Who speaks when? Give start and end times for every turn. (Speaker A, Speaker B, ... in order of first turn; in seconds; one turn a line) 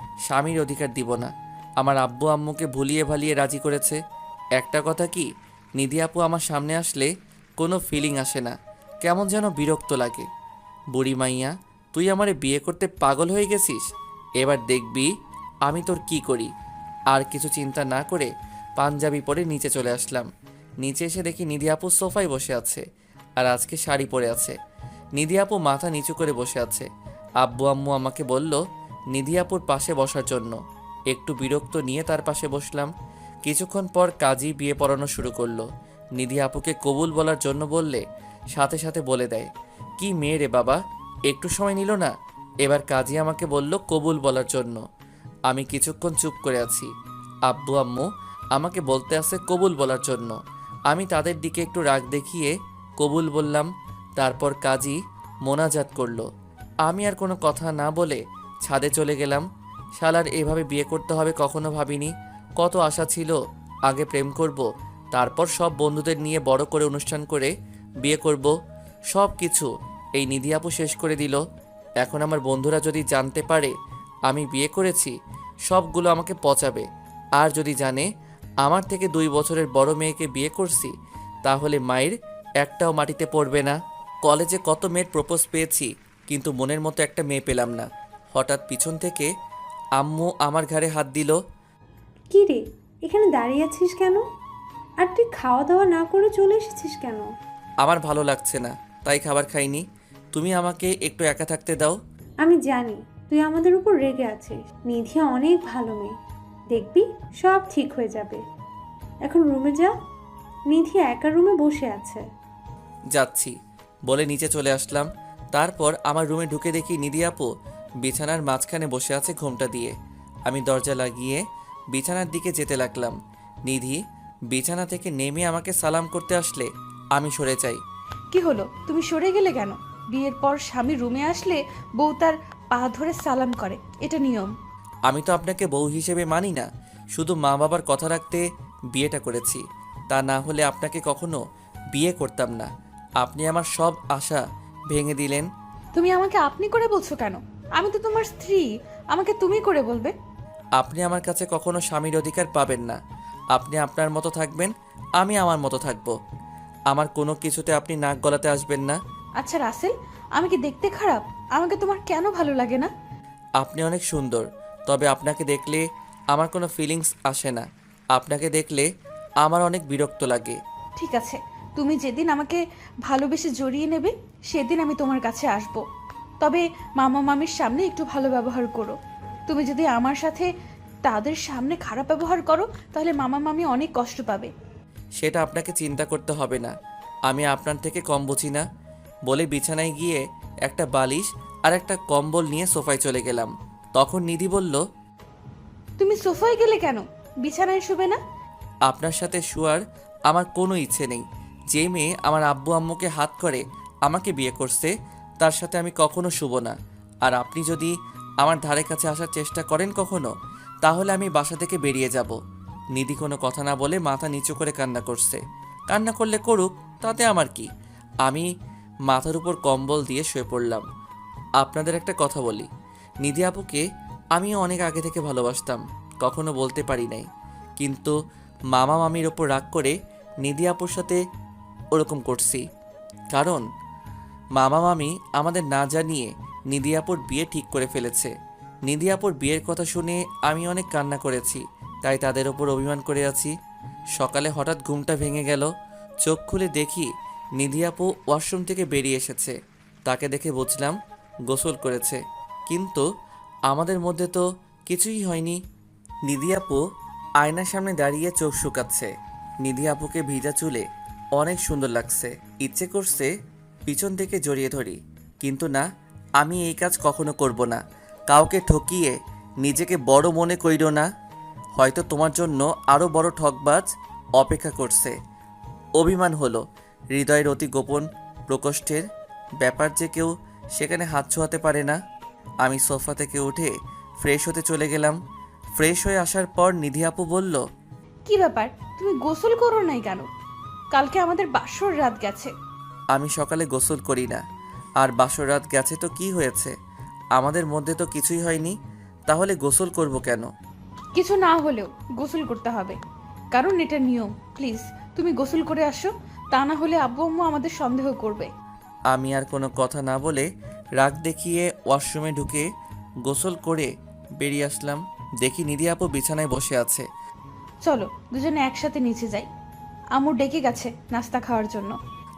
Speaker A: 0.3-4.0
Speaker A: 4.6-5.3
Speaker A: 5.8-10.3
Speaker A: 10.9-13.8
Speaker A: 14.4-15.1
Speaker A: 15.7-16.5
Speaker A: 17.1-20.3
Speaker A: 20.8-22.8
Speaker A: 23.4-24.6
Speaker A: 25.1-26.9
Speaker A: 27.4-28.6
Speaker A: 29.1-30.6
Speaker A: 31.1-32.9
Speaker A: 33.4-35.6
Speaker A: 36.2-38.0
Speaker A: 38.5-39.5
Speaker A: 40.0-42.1
Speaker A: 42.6-44.8
Speaker A: 45.5-46.9
Speaker A: 47.5-50.3
Speaker A: 50.9-56.2
Speaker A: 56.8-59.4
Speaker A: 60.0-63.4
Speaker A: 63.9-67.5
Speaker A: 68.0-68.5
Speaker A: 69.1-71.4
Speaker A: 72.0-73.7
Speaker A: 74.3-75.1
Speaker A: 75.7-76.8
Speaker A: 77.4-78.1
Speaker A: 78.6-80.9
Speaker A: 81.4-89.3
Speaker A: 90.0-91.4
Speaker B: 92.3-94.2
Speaker B: 95.0-97.3
Speaker A: 97.8-99.8
Speaker A: 100.3-101.9
Speaker B: 102.4-106.1
Speaker B: 106.7-108.4
Speaker B: 109.2-109.9
Speaker B: 110.7-112.2
Speaker A: 113.1-113.5
Speaker A: 114.0-117.5
Speaker A: 118.0-119.9
Speaker A: 120.5-121.4
Speaker A: 121.9-123.1
Speaker A: 123.7-124.0
Speaker A: 124.5-127.8
Speaker C: 128.3-134.5
Speaker A: 135.1-138.4
Speaker A: 138.9-141.4
Speaker A: 141.9-142.7
Speaker A: 143.2-145.5
Speaker C: 145.9-150.1
Speaker A: 150.8-153.0
Speaker A: 153.5-156.1
Speaker A: 156.9-159.0
Speaker C: 159.4-162.9
Speaker A: 163.6-168.9
Speaker A: 169.4-170.6
Speaker C: 171.0-175.8
Speaker C: 176.4-178.9
Speaker C: 179.5-180.5
Speaker C: 181.0-184.5
Speaker A: 185.2-186.7
Speaker A: 187.3-188.6
Speaker A: 189.2-194.8
Speaker C: 196.0-198.2
Speaker A: 198.9-207.9
Speaker A: 208.4-210.3
Speaker A: 210.8-212.3
Speaker A: 212.9-217.7
Speaker A: 219.1-220.8
Speaker A: 221.6-222.7
Speaker A: 223.2-223.8
Speaker A: 224.3-227.2
Speaker A: 227.8-228.1
Speaker A: 228.7-231.2
Speaker A: 231.9-232.6
Speaker A: 233.3-233.6
Speaker A: 234.6-238.3
Speaker A: 238.9-243.5
Speaker A: 244.2-245.7
Speaker A: 246.2-247.1
Speaker A: 247.6-249.5
Speaker A: 250.1-250.9
Speaker A: 251.5-253.0
Speaker A: 253.7-255.6
Speaker A: 256.3-256.8
Speaker A: 257.4-259.1
Speaker A: 259.6-260.8
Speaker A: 261.4-263.3
Speaker A: 263.9-265.8
Speaker A: 266.4-271.1
Speaker A: 271.8-275.1
Speaker A: 276.0-279.1
Speaker A: 279.6-282.0
Speaker A: 282.6-285.1
Speaker A: 285.8-287.6
Speaker C: 288.2-290.3
Speaker C: 290.9-292.5
Speaker A: 293.1-294.4
Speaker A: 295.0-296.7
Speaker A: 297.4-298.7
Speaker A: 299.3-300.5
Speaker C: 301.1-303.0
Speaker C: 303.5-308.5
Speaker A: 309.1-310.5
Speaker A: 311.0-312.6
Speaker A: 313.2-317.1
Speaker C: 317.8-319.5
Speaker C: 320.1-321.9